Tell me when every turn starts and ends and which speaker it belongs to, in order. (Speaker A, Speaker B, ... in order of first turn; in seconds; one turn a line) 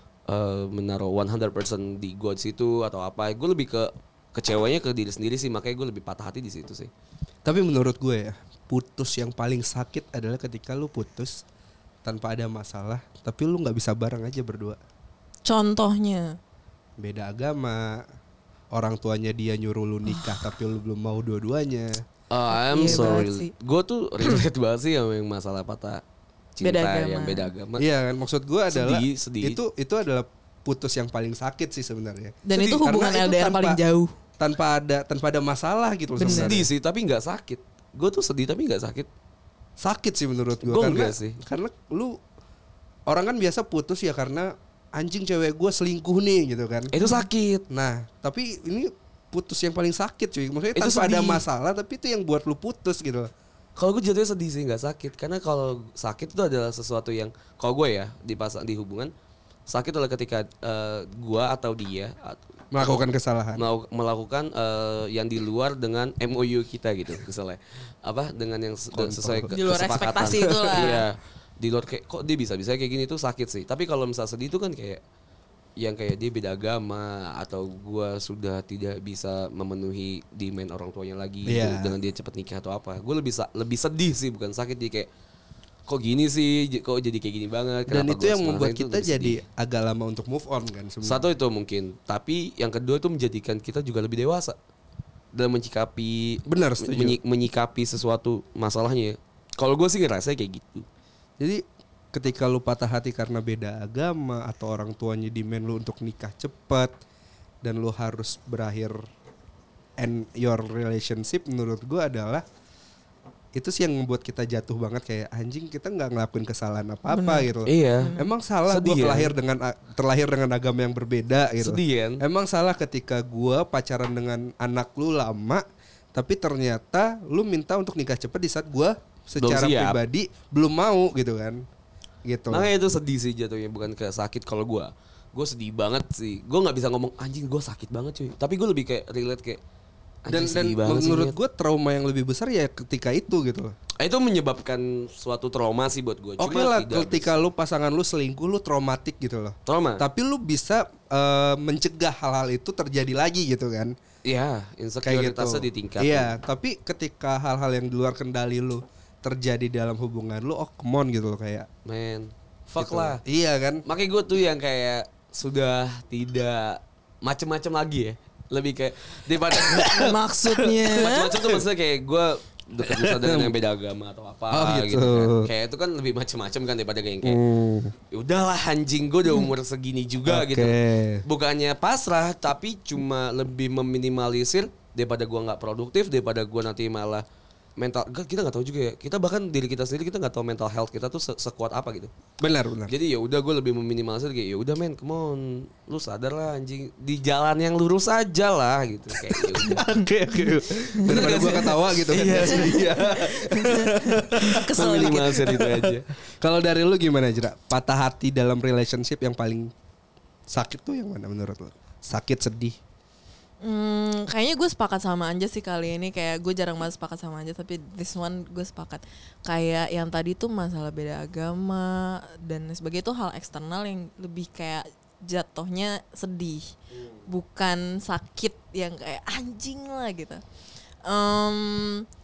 Speaker A: 0.3-6.9
Speaker B: 7.4-11.4
Speaker B: 12.0-14.8
Speaker C: 15.4-16.4
Speaker B: 17.0-18.0
Speaker B: 18.7-22.0
Speaker A: 22.3-26.0
Speaker C: 22.7-23.5
Speaker B: 22.9-23.2
Speaker A: 26.6-27.8
Speaker C: 26.6-27.5
Speaker B: 27.8-33.8
Speaker A: 28.7-29.6
Speaker C: 32.5-34.1
Speaker B: 34.4-36.7
Speaker C: 36.2-36.5
Speaker A: 36.2-39.1
Speaker B: 39.8-42.2
Speaker A: 40.6-41.4
Speaker B: 43.1-46.9
Speaker A: 46.9-47.6
Speaker B: 47.7-53.3
Speaker A: 50.8-51.4
Speaker A: 53.8-59.1
Speaker A: 59.7-75.0
Speaker B: 62.7-63.6
Speaker B: 68.9-69.5
Speaker C: 69.5-71.0
Speaker A: 75.8-85.1
Speaker B: 81.5-81.9
Speaker A: 85.9-89.4
Speaker B: 87.9-91.2
Speaker A: 91.0-94.5
Speaker A: 95.3-100.8
Speaker B: 96.5-97.2
Speaker B: 101.4-106.9
Speaker B: 107.6-109.0
Speaker B: 110.0-112.4
Speaker B: 113.5-131.6
Speaker C: 117.1-117.5
Speaker A: 117.7-118.1
Speaker C: 118.0-118.3
Speaker A: 118.7-119.3
Speaker A: 121.6-122.2
Speaker A: 129.4-130.0
Speaker B: 132.2-132.7
Speaker A: 132.5-139.6
Speaker A: 140.2-141.3
Speaker B: 140.3-143.7
Speaker A: 144.0-147.3
Speaker B: 146.4-153.9
Speaker A: 149.7-150.0
Speaker A: 154.2-156.3
Speaker B: 155.0-161.7
Speaker A: 161.8-163.2
Speaker B: 162.8-163.8
Speaker A: 163.8-177.4
Speaker C: 169.7-171.3
Speaker B: 172.8-173.5
Speaker B: 174.5-175.5
Speaker B: 177.2-177.9
Speaker A: 178.1-187.2
Speaker B: 180.2-181.2
Speaker A: 187.8-192.1
Speaker B: 192.4-192.9
Speaker A: 192.9-199.9
Speaker B: 199.4-209.7
Speaker A: 200.9-203.2
Speaker C: 202.4-205.6
Speaker A: 204.5-206.1
Speaker B: 210.5-212.8
Speaker C: 213.6-226.7
Speaker C: 227.2-230.4
Speaker C: 231.0-232.0